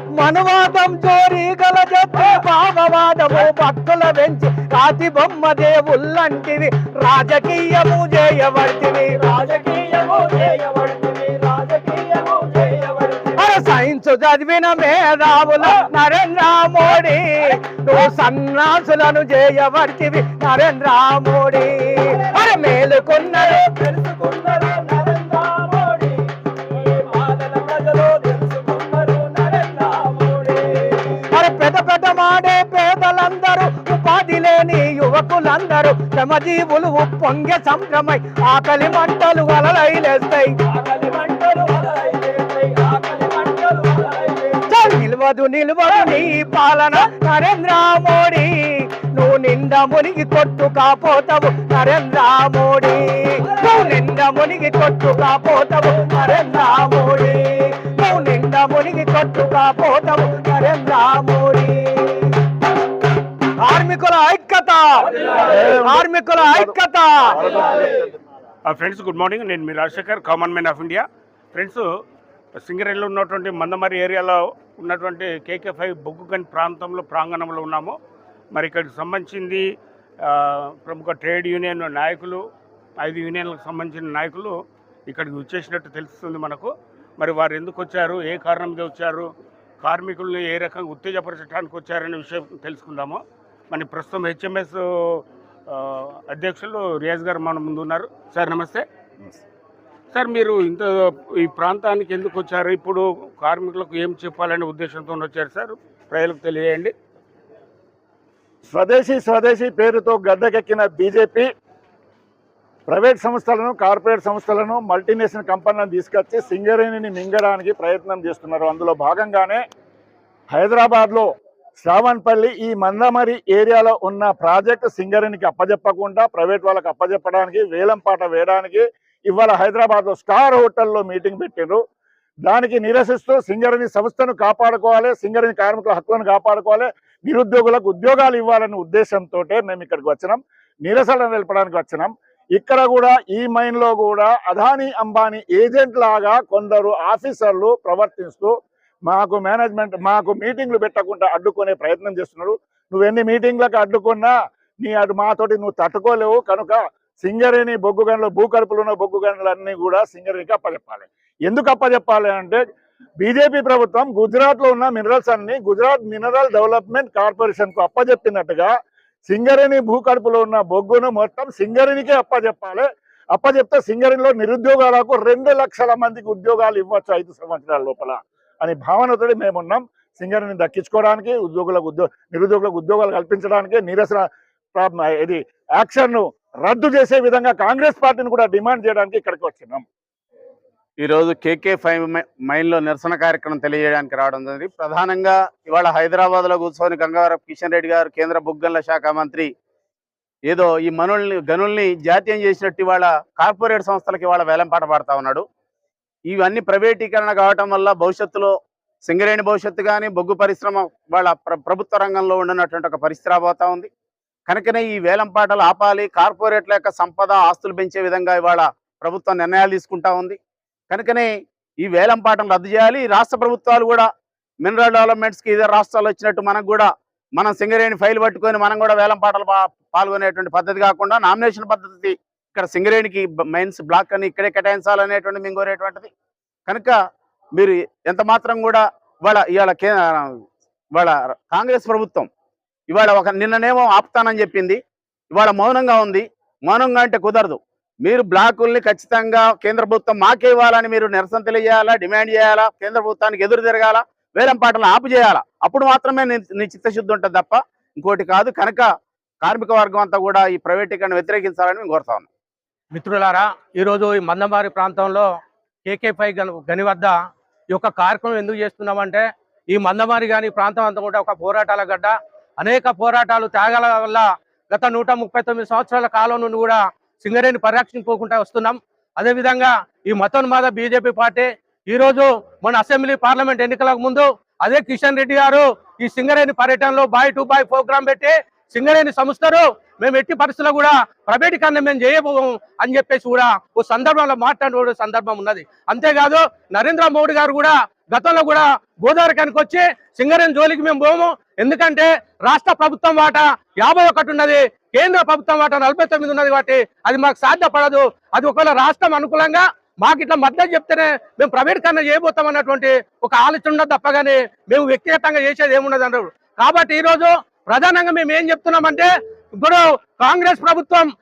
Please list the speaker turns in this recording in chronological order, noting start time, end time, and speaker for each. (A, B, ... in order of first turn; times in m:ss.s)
0:00.2-0:09.2 A
0:09.2-0:13.4 B
0:13.4-0:23.6 A
0:23.4-0:31.2 B
0:31.3-0:40.5 A
0:40.7-0:44.7 B
0:44.7-1:02.3 A
1:03.6-1:07.7 A
1:05.4-1:06.7 C
1:07.5-1:07.8 C
1:08.7-1:11.9 D
1:12.6-1:18.0 D
1:18.5-1:19.7 D
1:20.2-1:22.4 D
1:23.0-1:24.6 D
1:25.1-1:29.3 D
1:29.8-1:38.8 D
1:40.1-1:46.9 D
1:48.7-1:51.5 C
1:52.9-1:59.6 C
2:00.5-2:11.8 C
2:12.4-2:28.5 C
2:29.1-2:42.6 C
2:43.2-2:48.7 C
2:49.3-3:04.2 C
3:04.8-3:09.8 C
3:11.0-3:19.5 E
3:20.5-3:25.4 E
3:26.3-3:28.5 E
3:29.0-3:33.9 E
3:34.5-3:40.4 E
3:40.9-3:41.3 E
3:41.8-3:44.1 E
3:44.6-3:56.1 E
3:56.7-3:57.0 E
3:57.6-4:00.4 E
4:00.9-4:02.3 E
4:02.9-4:04.8 E
4:05.3-4:18.9 E
4:19.4-4:22.3 E
4:22.9-4:25.3 F
4:25.9-4:27.2 F
4:27.7-5:21.1 F